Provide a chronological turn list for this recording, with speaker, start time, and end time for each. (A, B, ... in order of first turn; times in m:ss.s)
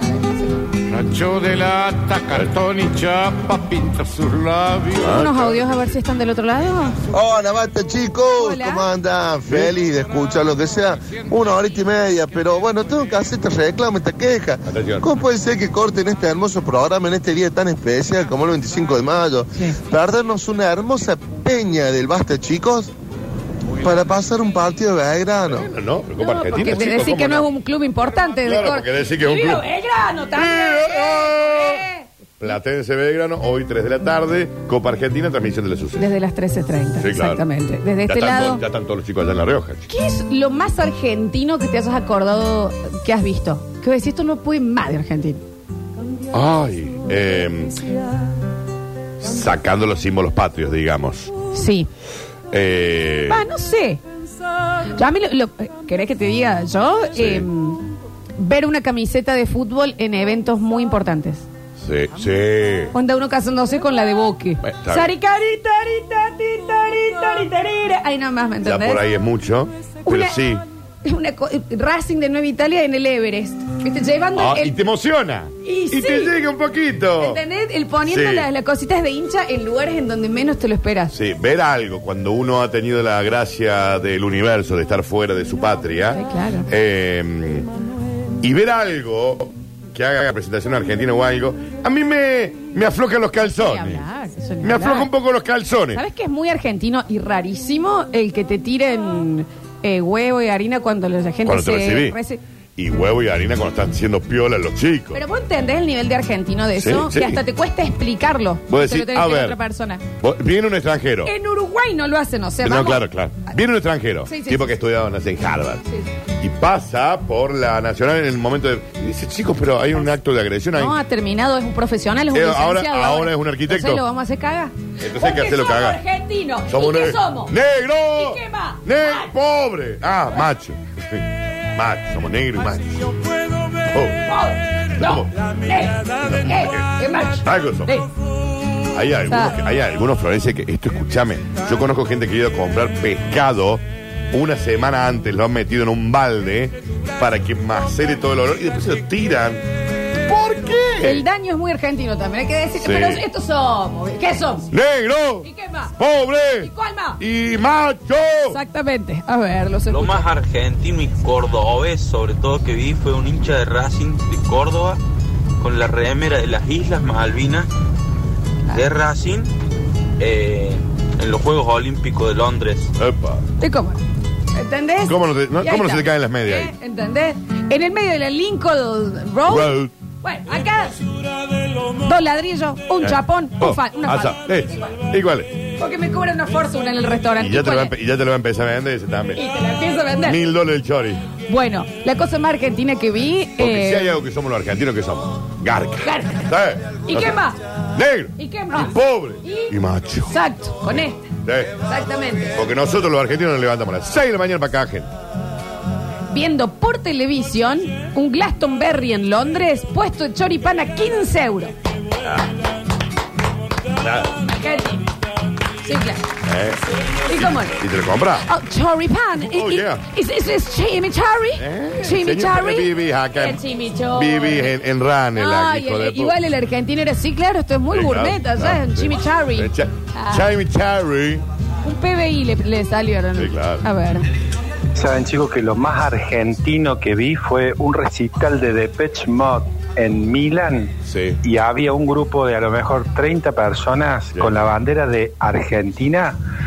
0:01.0-0:04.7 A
0:02.3-0:02.5 B
0:05.0-0:05.9 B
0:05.0-0:07.0 C
0:07.1-0:22.9 D
0:08.3-0:08.9 C
0:09.5-0:09.7 B
0:14.7-0:15.1 B
0:23.8-0:25.6 D
0:25.5-0:27.5 B
0:26.2-0:32.1 C
0:28.4-0:29.7 B
0:30.3-0:31.8 B
0:32.4-0:36.1 B
0:36.0-0:38.6 C
0:37.0-0:37.4 B
0:38.1-0:39.8 B
0:39.9-0:45.4 C
0:46.3-0:47.9 B
0:49.2-0:51.3 B
0:51.5-0:51.9 C
0:52.5-0:53.4 B
0:53.3-0:54.0 C
0:55.0-1:01.5 C
0:57.2-0:57.5 B
1:01.8-1:02.9 B
1:02.9-1:09.0 C
1:04.6-1:05.1 B
1:08.6-1:10.6 B
1:10.1-1:10.4 C
1:11.0-1:14.7 C
1:14.4-1:17.4 B
1:15.6-1:16.4 C
1:17.2-1:21.1 C
1:18.0-1:18.5 B
1:21.1-1:27.7 B
1:26.1-1:26.7 C
1:28.4-1:34.1 B
1:33.5-1:35.1 C
1:34.6-1:36.0 B
1:35.9-1:42.4 C
1:41.4-1:42.2 B
1:42.8-1:45.2 B
1:45.1-1:50.0 C
1:46.8-1:47.4 B
1:48.7-1:49.6 B
1:50.2-1:51.3 B
1:51.2-1:53.0 C
1:52.6-1:55.8 B
1:54.3-1:54.6 C
1:56.4-2:01.0 B
2:00.8-2:07.5 C
2:02.3-2:04.0 B
2:05.0-2:06.0 B
2:06.7-2:11.2 B
2:08.1-2:09.3 C
2:11.8-2:13.1 B
2:13.9-2:14.2 B
2:14.3-2:18.1 C
2:15.0-2:15.3 B
2:16.0-2:16.8 B
2:17.4-2:17.9 B
2:18.9-2:29.6 B
2:19.3-2:19.6 C
2:30.3-2:31.2 B
2:31.0-2:34.7 C
2:32.8-2:33.2 B
2:34.7-2:38.6 B
2:35.4-2:36.0 C
2:36.6-2:37.2 C
2:38.5-2:40.3 C
2:39.9-2:45.0 E
2:45.6-2:47.7 E
2:48.7-2:49.5 E
2:50.2-2:52.9 E
2:53.0-2:53.4 B
2:53.6-2:54.0 C
2:54.5-3:01.0 C
2:55.1-2:56.7 B
2:59.5-2:59.9 B
3:02.0-3:04.4 C
3:03.0-3:05.5 B
3:05.8-3:07.9 C
3:07.4-3:09.4 B
3:09.4-3:10.4 C
3:10.2-3:11.2 B
3:11.5-3:14.2 C
3:13.6-3:17.4 B
3:16.0-3:16.5 C
3:17.1-3:17.6 C
3:17.9-3:20.3 B
3:18.4-3:19.7 C
3:20.3-3:21.3 C
3:20.8-3:21.7 B
3:21.9-3:22.6 C
3:22.5-3:25.1 B
3:26.3-3:31.7 C
3:34.0-3:34.3 B
3:34.4-3:35.1 C
3:35.8-3:36.2 C
3:36.5-3:38.5 B
3:37.3-3:37.8 C
3:38.4-3:44.7 C
3:39.4-3:40.0 B
3:41.6-3:46.4 B
3:45.4-3:50.5 C
3:47.9-3:51.4 B
3:51.8-3:54.3 C
3:53.4-3:53.9 B
3:55.0-4:00.9 F
4:01.1-4:01.4 B
4:01.4-4:06.4 F
4:04.3-4:04.7 B